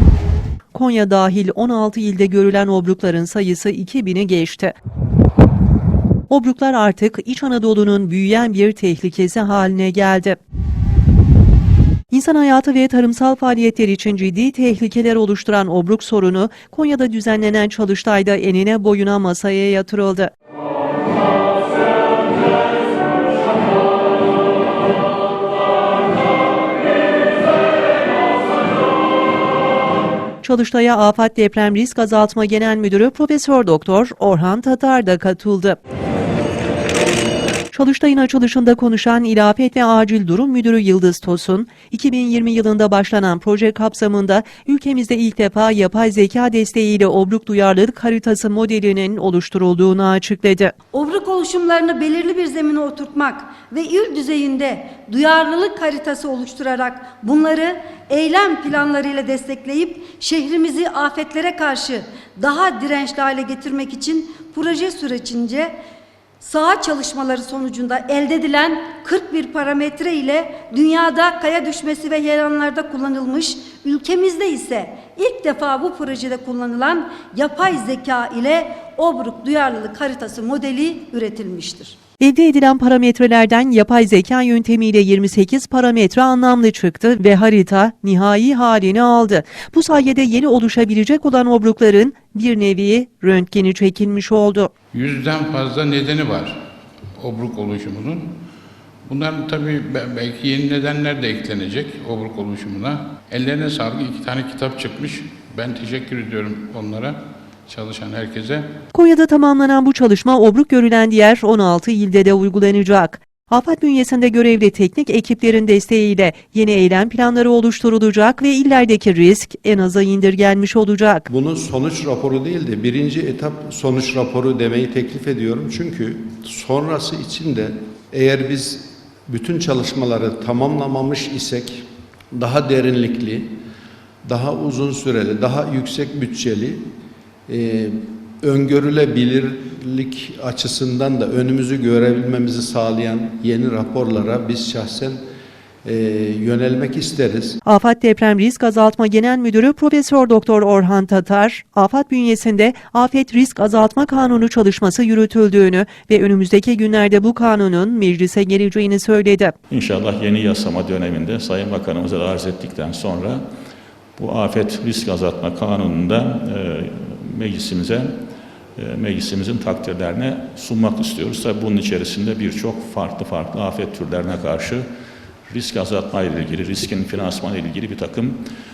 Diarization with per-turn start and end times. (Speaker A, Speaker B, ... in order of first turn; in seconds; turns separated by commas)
Speaker A: 0.7-4.7, Speaker A: 6.3-10.4, Speaker A: 12.1-20.3, Speaker A: 30.4-35.8, Speaker A: 37.7-50.7, Speaker B: 50.9-65.7, Speaker B: 66.4-82.0, Speaker A: 82.2-94.7, Speaker C: 94.9-96.6, Speaker C: 97.2-98.4, Speaker C: 99.1-108.7, Speaker A: 109.0-121.3, Speaker D: 121.3-133.6, Speaker D: 134.2-136.9, Speaker D: 137.5-145.3, Speaker D: 145.8-147.6, Speaker A: 147.7-159.6, Speaker E: 159.7-163.4, Speaker E: 164.2-168.1, Speaker E: 168.8-174.8, Speaker E: 175.5-178.4